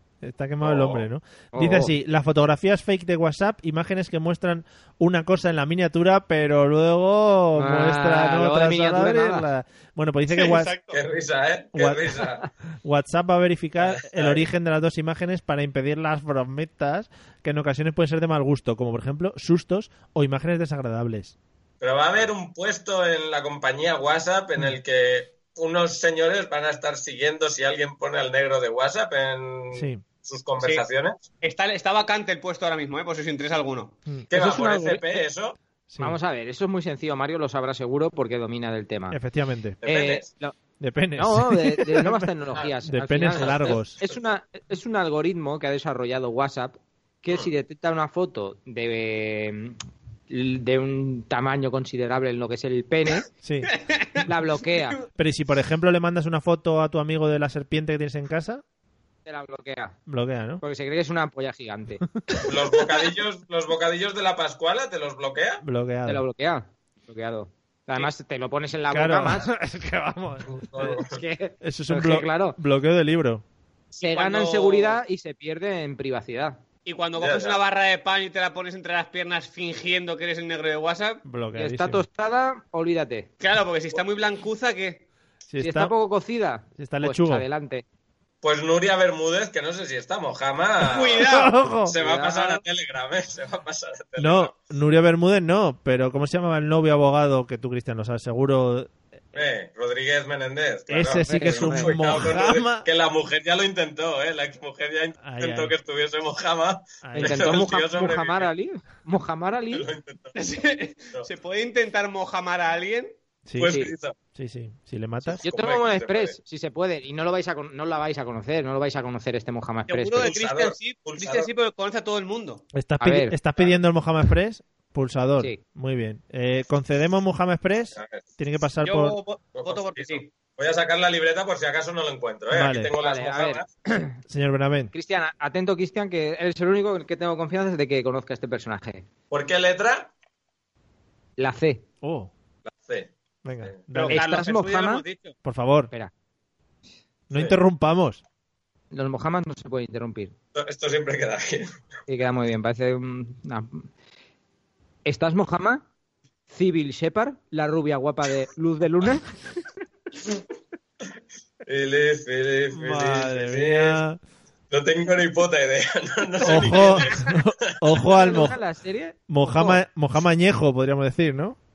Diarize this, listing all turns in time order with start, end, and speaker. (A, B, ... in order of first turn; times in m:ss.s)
0:00.2-0:10.7 A
0:00.6-0:01.0 B
0:01.5-0:01.9 C
0:07.5-0:09.5 C
0:10.3-0:11.0 D
0:10.9-0:12.5 B
0:11.7-0:12.2 A
0:12.8-0:21.3 A
0:13.8-0:14.5 B
0:21.8-0:31.2 B
0:29.7-0:30.0 A
0:30.6-0:30.8 D
0:31.4-0:34.0 D
0:34.3-0:35.6 B
0:34.3-0:35.2 C
0:35.9-0:36.2 A
0:36.0-0:39.2 C
0:39.1-0:39.8 A
0:39.8-0:40.3 B
0:39.8-0:40.6 C
0:40.8-0:42.3 A
0:41.2-0:49.8 C
0:42.8-0:44.0 A
0:43.4-0:44.2 B
0:50.3-0:53.3 C
0:53.4-0:53.7 A
0:53.9-0:54.3 D
0:54.2-0:55.0 C
0:55.2-0:58.6 A
0:59.2-1:00.0 C
1:00.1-1:00.6 A
1:00.6-1:02.0 C
1:02.4-1:05.6 B
1:05.6-1:06.2 A
1:06.0-1:09.5 C
1:08.9-1:10.9 A
1:10.5-1:11.2 B
1:10.8-1:12.6 C
1:11.6-1:13.4 A
1:13.9-1:16.6 C
1:14.1-1:15.0 D
1:16.8-1:21.2 D
1:17.2-1:17.6 B
1:21.2-1:22.0 A
1:21.5-1:23.3 C
1:23.4-1:25.0 D
1:25.5-1:25.9 A
1:25.6-1:27.8 C
1:26.8-1:27.4 A
1:28.4-1:34.6 B
1:30.8-1:31.5 D
1:31.2-1:32.0 A
1:31.9-1:32.6 C
1:34.2-1:38.9 A
1:39.3-1:48.5 B
1:40.9-1:42.8 A
1:41.3-1:42.0 C
1:45.2-1:45.7 A
1:47.0-1:47.6 A
1:47.1-1:49.8 C
1:49.7-1:50.4 B
1:50.4-1:53.1 D
1:53.5-1:53.8 A
1:53.6-1:54.2 B
1:53.6-1:53.9 C
1:54.3-1:55.4 A
1:55.2-1:56.4 B
1:55.4-2:00.3 C
1:59.9-2:02.6 D
2:00.2-2:01.5 B
2:02.7-2:09.2 A
2:03.0-2:03.4 C
2:07.9-2:08.2 B
2:08.8-2:10.3 D
2:09.5-2:13.7 B
2:12.5-2:12.9 A
2:13.0-2:14.2 C
2:14.3-2:14.9 A
2:14.9-2:19.1 C
2:19.3-2:20.1 B
2:21.4-2:21.8 C
2:22.0-2:22.3 A
2:22.6-2:23.1 B
2:23.4-2:24.2 A
2:23.9-2:25.3 D
2:24.0-2:25.0 C
2:25.4-2:25.9 A
2:27.3-2:28.2 A
2:28.9-2:30.3 C
2:30.5-2:31.8 B
2:32.1-2:33.9 C
2:35.0-2:35.8 C
2:36.5-2:39.3 C
2:41.6-2:44.0 B
2:42.7-2:44.2 A
2:44.7-2:47.4 B
2:46.4-2:48.6 A
2:48.0-2:49.8 C
2:49.3-2:51.6 A